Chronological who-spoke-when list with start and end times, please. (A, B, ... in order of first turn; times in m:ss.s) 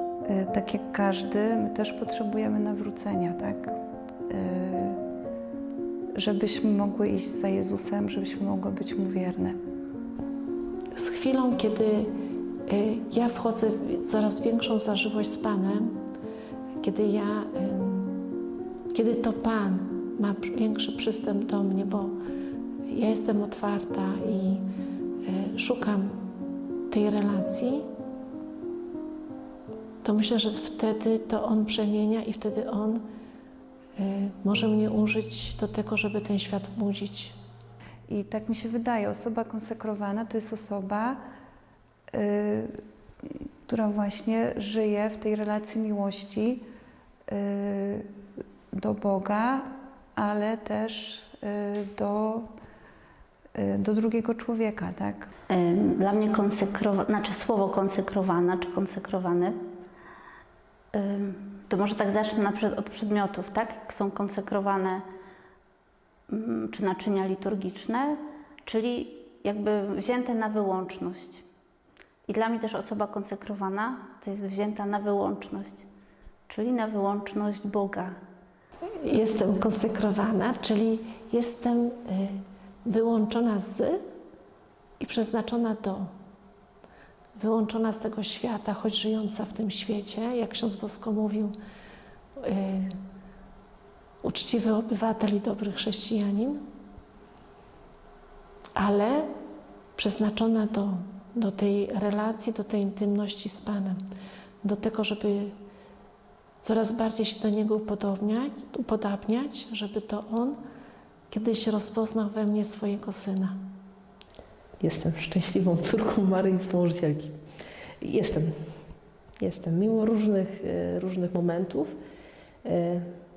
0:00.3-0:03.8 A
0:04.3-0:05.0 A
0:06.2-0:09.6 A
0:10.9-0:12.1 B
0:12.7-0:15.9 B
0:16.8-0:18.2 B
0:18.9-0:22.2 B
0:22.9-0:24.7 B
0:25.2-0:26.2 B
0:26.9-0:27.9 B
0:30.0-0:33.0 B
0:34.0-0:37.4 B
0:38.1-0:41.2 A
0:42.1-0:42.7 A
0:43.7-0:46.6 A
0:47.3-0:48.0 A
0:48.7-0:52.5 A
0:53.6-0:55.3 A
0:55.5-0:59.6 C
1:00.9-1:05.0 C
1:06.3-1:11.4 C
1:12.3-1:15.8 C
1:16.5-1:18.2 C
1:19.0-1:24.0 B
1:25.0-1:26.1 B
1:27.4-1:31.5 B
1:32.4-1:33.0 B
1:34.2-1:36.6 B
1:38.8-1:39.3 B
1:40.0-1:44.0 B
1:44.6-1:45.5 B
1:46.6-1:50.6 B
1:51.3-1:53.6 B
1:54.8-1:57.3 D
1:58.0-1:58.5 D
1:59.4-2:01.9 D
2:02.6-2:03.1 D